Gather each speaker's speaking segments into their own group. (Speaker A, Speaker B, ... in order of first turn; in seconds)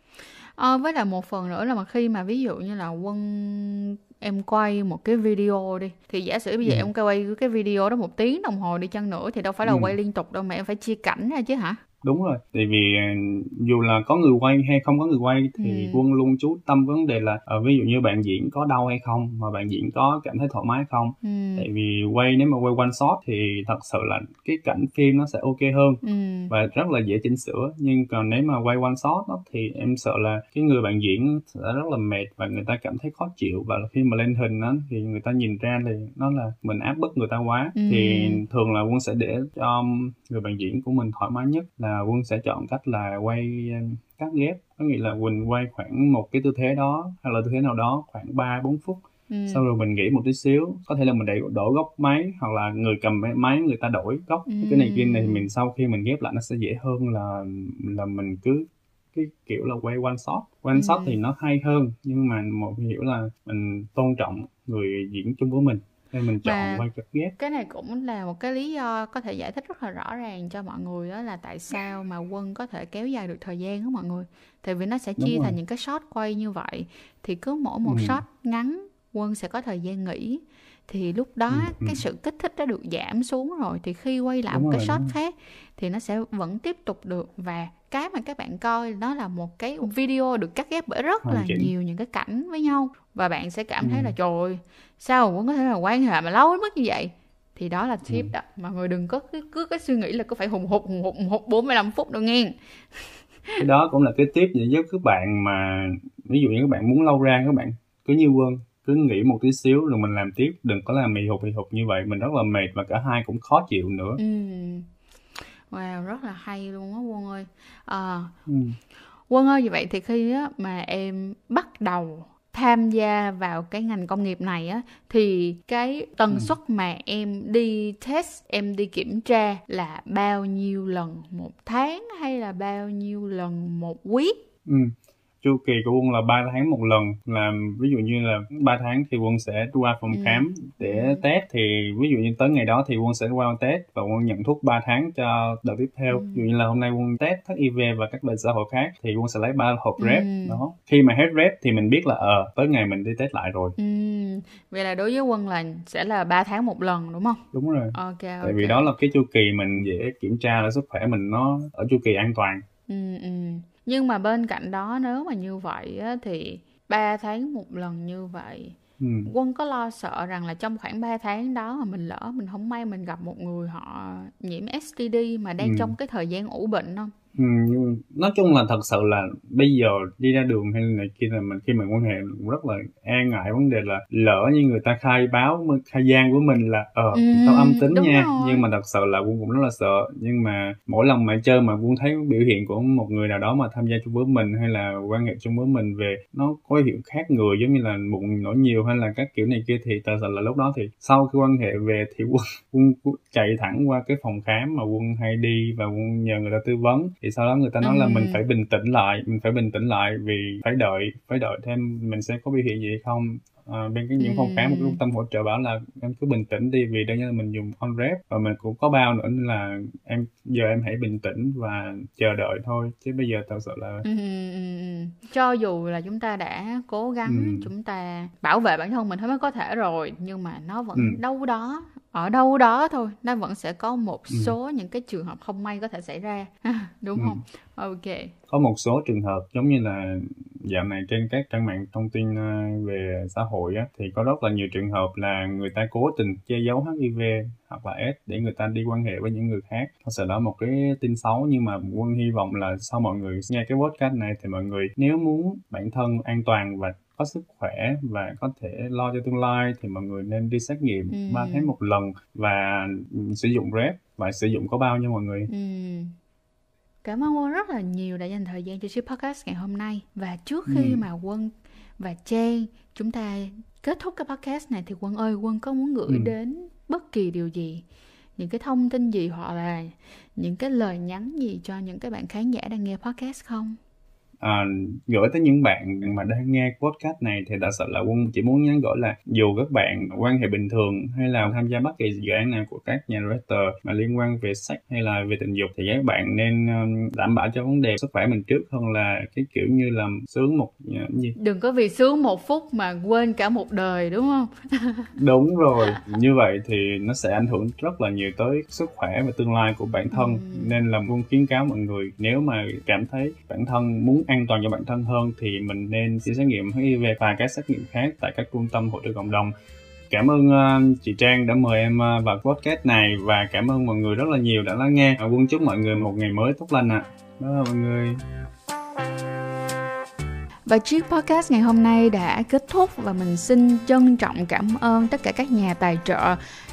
Speaker A: 0.6-11.8, 15.6-16.0, 21.2-21.7, 26.0-26.5, 37.8-38.4, 49.3-49.6, 54.5-55.5, 60.8-61.2, 66.4-66.9, 67.4-103.6, 114.2-114.9, 115.4-118.3, 119.3-134.4, 140.1-141.2, 146.1-146.5, 150.0-150.6, 153.8-158.9, 162.9-177.1, 187.1-188.7, 207.8-208.4, 214.2-215.0, 224.0-238.3, 261.1-261.7, 265.5-266.1, 267.0-277.9, 278.4-283.8, 301.4-305.1, 310.1-310.8, 330.7-336.4
Speaker B: 6.6-6.9, 9.6-9.9, 12.0-67.3, 75.2-75.6, 77.8-78.2, 81.5-82.0, 84.5-85.2, 91.2-91.7, 93.8-94.2, 103.6-114.2, 118.5-118.8, 134.7-153.8, 157.5-162.6, 169.0-169.3, 175.6-175.9, 177.3-224.1, 227.3-227.7, 231.0-231.2, 234.3-234.6, 237.2-237.4, 238.5-265.5, 270.7-271.0, 276.1-276.3, 284.4-301.4, 305.2-319.5, 320.1-328.2